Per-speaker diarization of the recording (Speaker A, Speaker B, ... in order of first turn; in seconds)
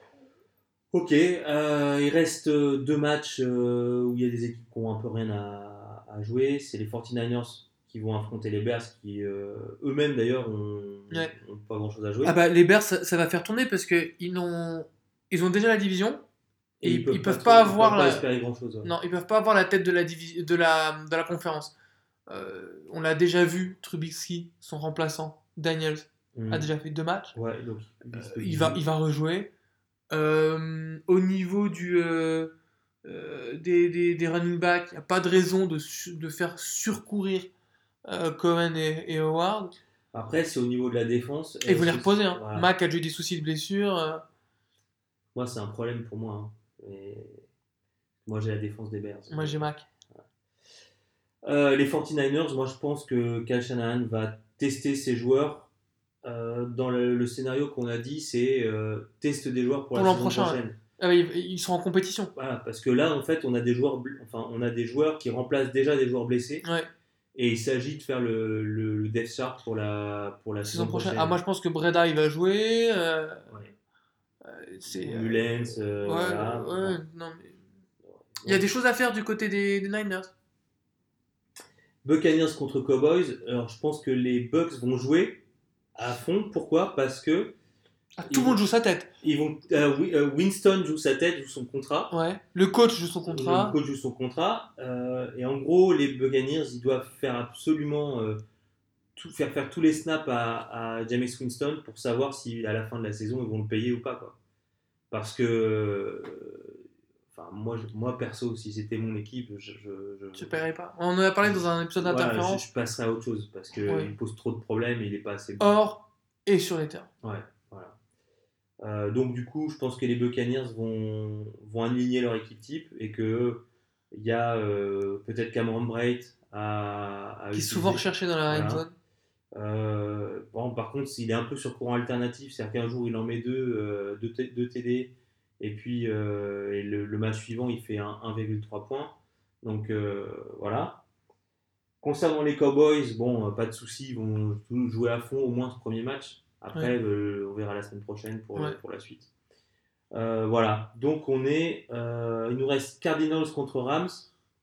Speaker A: 0.9-12.4, 16.8-18.9, 26.3-26.7, 27.3-28.8, 40.1-42.7, 45.3-47.5, 48.2-50.2, 51.4-55.7, 56.2-60.8, 62.3-66.6, 67.3-71.4, 74.9-77.0, 78.1-78.6, 82.0-85.4, 85.9-87.5, 88.3-88.6, 89.2-92.1, 93.3-98.4, 99.2-104.3, 105.1-106.8, 107.3-110.5, 111.4-115.7, 117.2-118.0, 118.8-128.8, 129.5-141.0, 142.0-149.3, 150.1-154.3
Speaker B: 12.2-16.2, 16.8-18.2, 18.8-21.7, 22.3-27.3, 28.1-29.5, 30.1-32.5, 33.0-37.5, 38.0-39.7, 41.6-44.2, 49.3-49.8, 59.9-62.3, 66.6-66.9, 70.6-73.5, 74.4-77.6, 78.4-80.3, 88.2-89.1, 92.1-93.8, 110.3-112.6, 113.8-114.1, 115.6-117.1, 127.5-128.9